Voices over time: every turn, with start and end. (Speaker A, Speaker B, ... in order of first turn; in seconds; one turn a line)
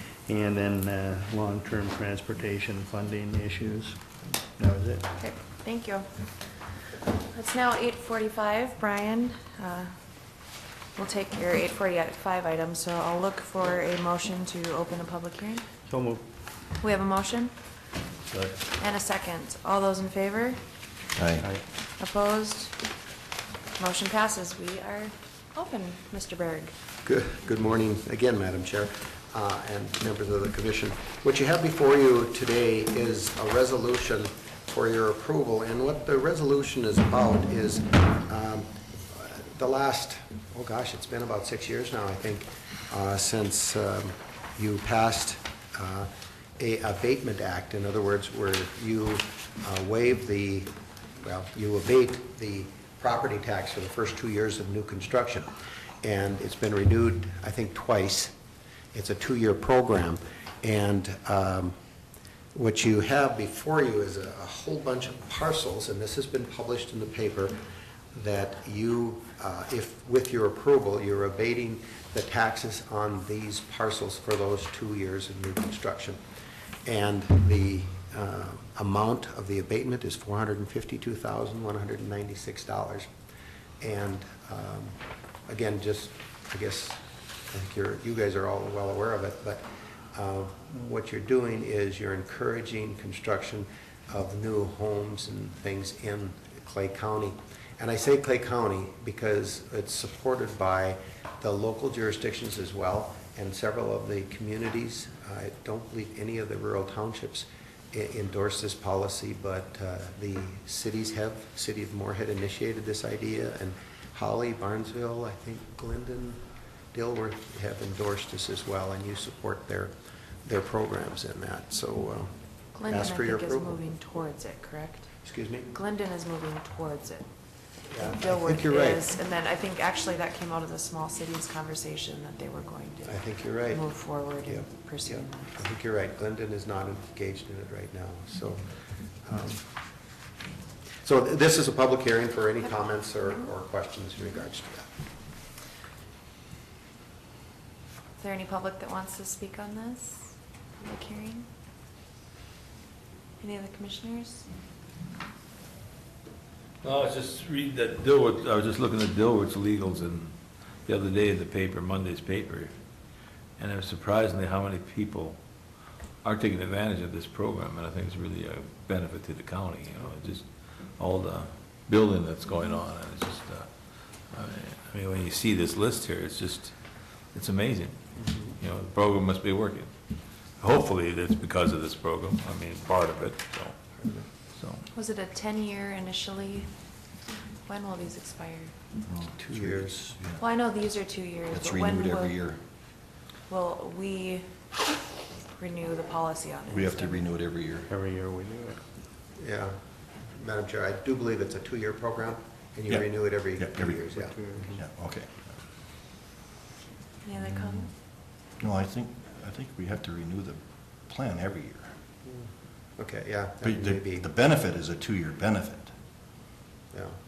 Speaker A: 0.2-4.0
Speaker A: 4.5-5.1
Speaker B: 5.2-6.1
Speaker B: 7.1-9.9
Speaker B: 10.9-15.7
Speaker A: 15.9-16.2
Speaker B: 16.8-17.5
Speaker C: 18.2-18.6
Speaker B: 18.7-20.6
Speaker D: 21.1-21.5
Speaker B: 22.0-22.7
Speaker B: 23.8-26.7
Speaker E: 27.0-55.5
Speaker E: 56.0-58.3
Speaker E: 58.9-61.7
Speaker E: 62.5-67.6
Speaker E: 68.1-76.2
Speaker E: 76.8-83.1
Speaker E: 83.8-85.0
Speaker E: 85.5-116.4
Speaker E: 116.9-119.9
Speaker E: 120.4-122.3
Speaker B: 122.7-127.3
Speaker E: 122.8-123.8
Speaker E: 125.2-125.7
Speaker E: 127.9-129.0
Speaker B: 128.0-135.7
Speaker E: 133.0-133.9
Speaker E: 134.4-138.6
Speaker E: 139.2-139.6
Speaker E: 141.0-144.9
Speaker B: 148.2-151.5
Speaker B: 153.4-154.5
Speaker C: 156.8-162.7
Speaker C: 163.6-165.4
Speaker C: 166.2-173.7
Speaker C: 174.3-177.9
Speaker E: 178.2-178.6
Speaker C: 178.6-179.9
Speaker C: 180.6-183.7
Speaker C: 184.5-184.8
Speaker B: 184.9-186.7
Speaker B: 187.7-188.7
Speaker D: 189.1-190.4
Speaker E: 189.3-189.9
Speaker B: 190.3-192.4
Speaker D: 191.5-192.6
Speaker B: 193.5-194.5
Speaker B: 195.5-197.2
Speaker D: 196.7-197.9
Speaker A: 197.9-198.8
Speaker E: 199.4-199.7
Speaker E: 200.3-204.4
Speaker D: 202.9-205.5
Speaker B: 207.2-207.9
Speaker D: 208.6-211.9
Speaker E: 212.2-214.3
Speaker D: 213.6-215.9
Speaker E: 216.9-217.2